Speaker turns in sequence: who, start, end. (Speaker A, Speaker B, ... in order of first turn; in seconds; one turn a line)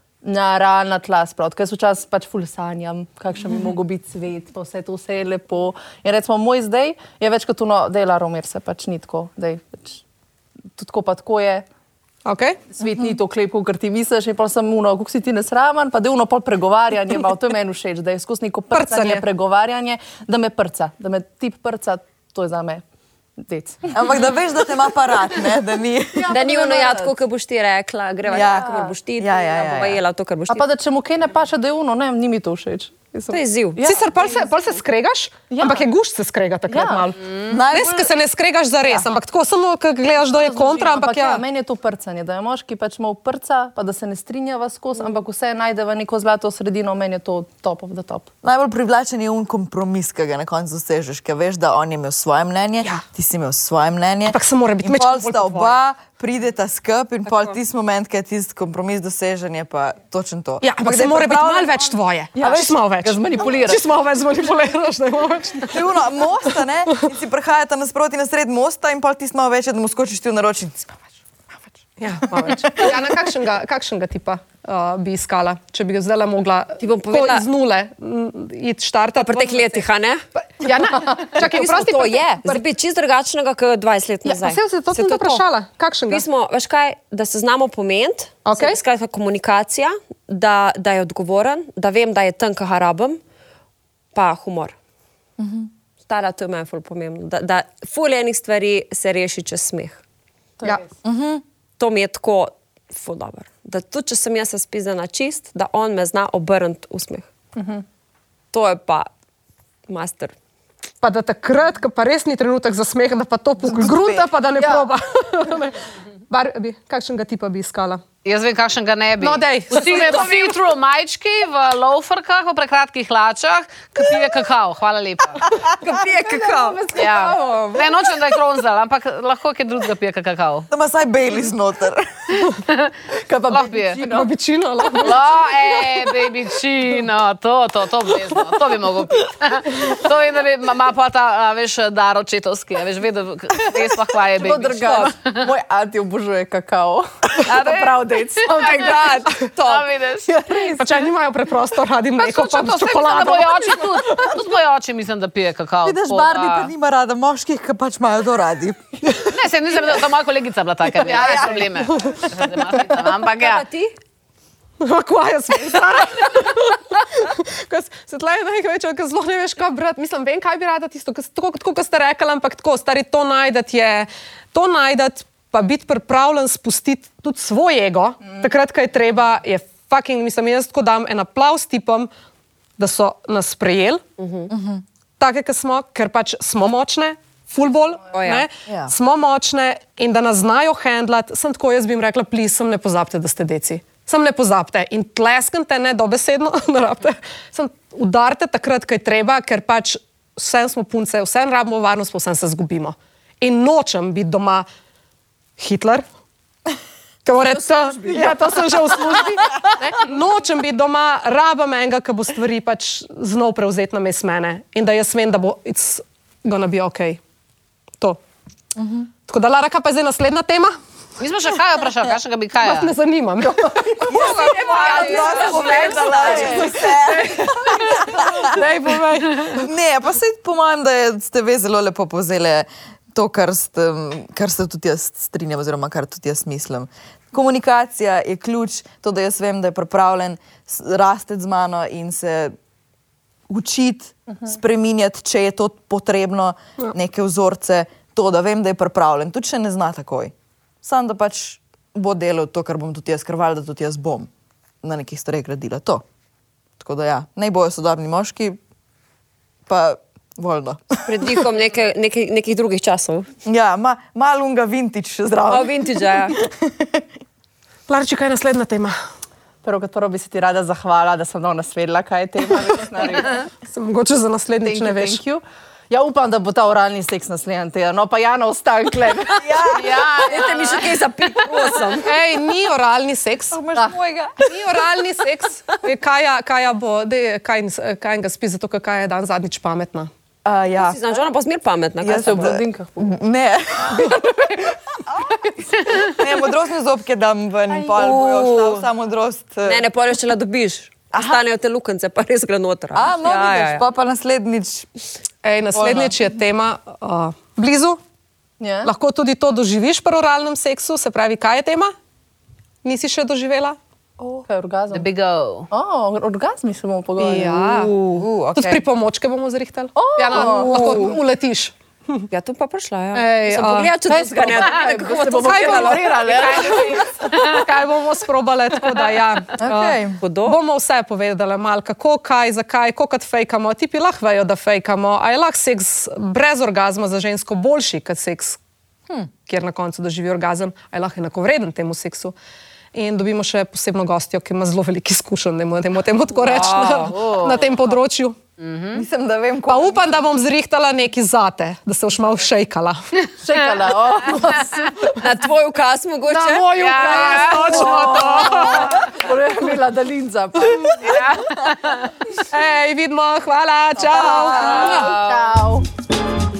Speaker A: 0.2-10.0
Speaker A: 10.8-11.7
Speaker B: 12.2-12.6
Speaker A: 12.7-22.8
Speaker B: 18.7-19.2
Speaker A: 23.4-24.0
Speaker C: 23.9-26.3
Speaker A: 26.1-27.2
Speaker D: 26.3-30.6
Speaker C: 28.3-30.0
Speaker A: 28.3-28.9
Speaker A: 30.5-34.5
Speaker D: 33.3-33.8
Speaker B: 33.8-41.4
Speaker A: 35.5-35.9
Speaker A: 36.7-37.0
Speaker E: 37.2-37.5
Speaker C: 37.5-38.1
Speaker A: 40.3-48.3
Speaker C: 48.4-62.7
Speaker B: 54.3-55.8
Speaker B: 60.6-65.8
Speaker A: 62.4-63.8
Speaker C: 65.7-71.7
Speaker B: 72.0-79.8
Speaker C: 72.2-73.2
Speaker D: 76.8-77.4
Speaker D: 79.2-80.2
Speaker B: 80.4-82.7
Speaker D: 81.3-85.4
Speaker B: 84.2-86.2
Speaker D: 86.1-93.2
Speaker B: 88.4-88.8
Speaker D: 94.1-94.8
Speaker C: 95.4-95.7
Speaker D: 96.0-100.0
Speaker C: 101.0-101.4
Speaker D: 101.8-107.3
Speaker A: 107.5-107.8
Speaker D: 108.5-109.1
Speaker D: 109.9-110.3
Speaker B: 111.0-118.0
Speaker C: 113.6-114.3
Speaker A: 114.6-114.9
Speaker E: 118.2-125.4
Speaker B: 119.2-120.5
Speaker D: 125.8-126.8
Speaker A: 125.8-128.2
Speaker E: 126.9-130.7
Speaker C: 130.7-132.4
Speaker E: 132.5-132.9
Speaker A: 133.2-134.3
Speaker E: 133.5-134.0
Speaker B: 134.1-135.2
Speaker E: 135.0-145.5
Speaker A: 144.3-149.3
Speaker E: 147.4-150.4
Speaker D: 148.6-149.8
Speaker A: 150.3-151.0
Speaker B: 150.7-154.3
Speaker E: 152.2-156.7
Speaker C: 155.8-159.2
Speaker E: 159.2-163.7
Speaker B: 161.0-162.2
Speaker D: 163.3-163.9
Speaker B: 164.8-182.1
Speaker B: 182.8-184.0
Speaker D: 184.2-184.5
Speaker C: 184.5-184.8
Speaker B: 185.2-204.7
Speaker D: 188.1-188.4
Speaker C: 188.7-188.9
Speaker B: 205.6-206.0
Speaker B: 207.2-217.2
Speaker A: 207.5-208.8
Speaker C: 218.8-219.1
Speaker B: 219.3-220.8
Speaker E: 221.2-222.9
Speaker B: 222.0-229.7
Speaker A: 223.4-226.9
Speaker C: 224.1-228.6
Speaker E: 224.3-226.3
Speaker C: 229.5-242.5
Speaker C: 243.5-254.3
Speaker C: 254.8-256.0
Speaker C: 256.8-258.6
Speaker C: 259.7-261.4
Speaker D: 261.1-263.3
Speaker C: 263.4-267.1
Speaker D: 265.5-266.4
Speaker B: 267.9-269.0
Speaker A: 269.6-273.4
Speaker B: 273.6-275.2
Speaker A: 274.6-279.4
Speaker C: 279.4-280.6
Speaker E: 279.7-281.7
Speaker D: 280.0-282.1
Speaker B: 282.0-283.6
Speaker C: 283.5-284.6
Speaker B: 284.5-290.1
Speaker C: 290.4-291.2
Speaker D: 290.8-292.6
Speaker C: 292.0-299.9
Speaker A: 292.1-293.1
Speaker A: 294.0-294.6
Speaker D: 297.7-298.9
Speaker D: 299.6-303.8
Speaker C: 301.1-301.4
Speaker C: 302.9-304.9
Speaker B: 305.4-308.0
Speaker C: 305.7-306.2
Speaker A: 308.6-308.9
Speaker B: 308.8-311.9
Speaker B: 312.8-313.8
Speaker A: 314.4-315.1
Speaker E: 314.9-315.7
Speaker A: 315.7-317.8
Speaker B: 317.2-322.3
Speaker C: 318.2-318.8
Speaker A: 319.9-321.1
Speaker C: 320.3-321.2
Speaker D: 322.3-327.0
Speaker B: 323.1-323.9
Speaker A: 324.0-327.1
Speaker B: 325.4-338.6
Speaker E: 326.2-327.6
Speaker C: 329.6-330.2
Speaker D: 330.2-330.6
Speaker B: 339.4-342.3
Speaker B: 342.9-348.4
Speaker D: 346.4-347.1
Speaker E: 347.1-347.8
Speaker E: 348.6-349.0
Speaker C: 348.9-350.2
Speaker B: 349.7-353.1
Speaker A: 353.4-355.2
Speaker E: 354.3-354.7
Speaker D: 355.1-358.9
Speaker B: 356.3-359.0
Speaker E: 356.7-357.7
Speaker A: 357.4-361.2
Speaker E: 361.0-362.1
Speaker B: 362.5-365.1
Speaker A: 364.1-365.9
Speaker C: 364.2-364.9
Speaker E: 364.5-365.6